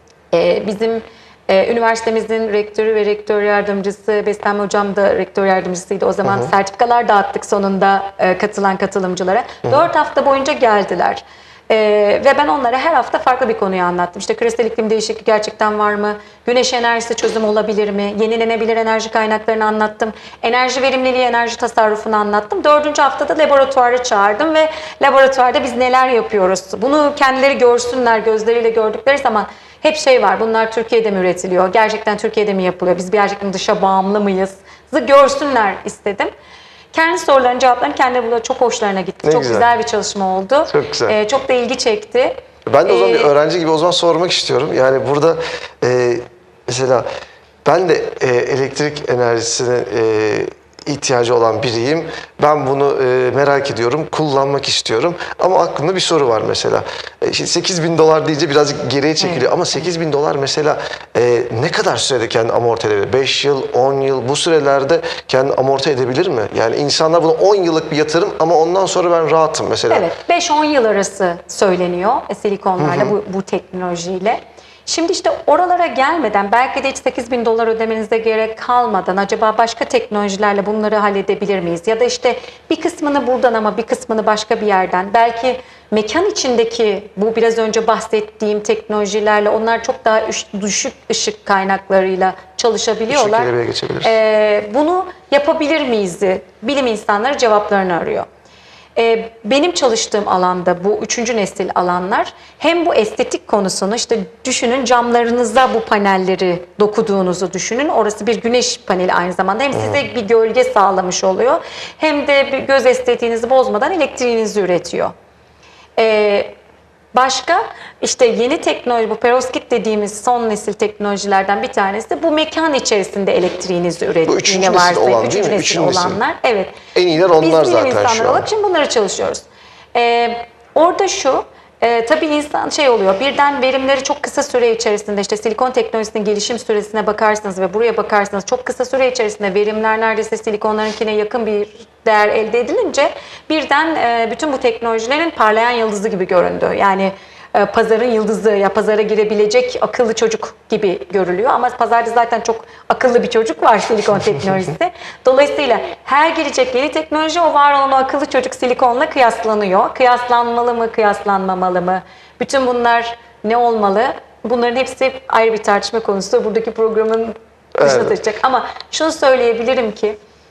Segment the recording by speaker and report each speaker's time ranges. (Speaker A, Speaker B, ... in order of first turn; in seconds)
Speaker A: 0.3-36.3, 36.9-43.3, 59.2-59.5, 69.9-98.3, 99.0-115.1, 116.0-116.5, 117.1-126.8, 127.4-170.2
Speaker B: 6.2-6.5, 39.2-39.7, 40.7-41.2, 42.7-47.0, 47.6-70.1, 72.8-73.1, 93.1-94.1, 124.2-126.2, 126.9-128.5, 167.8-168.2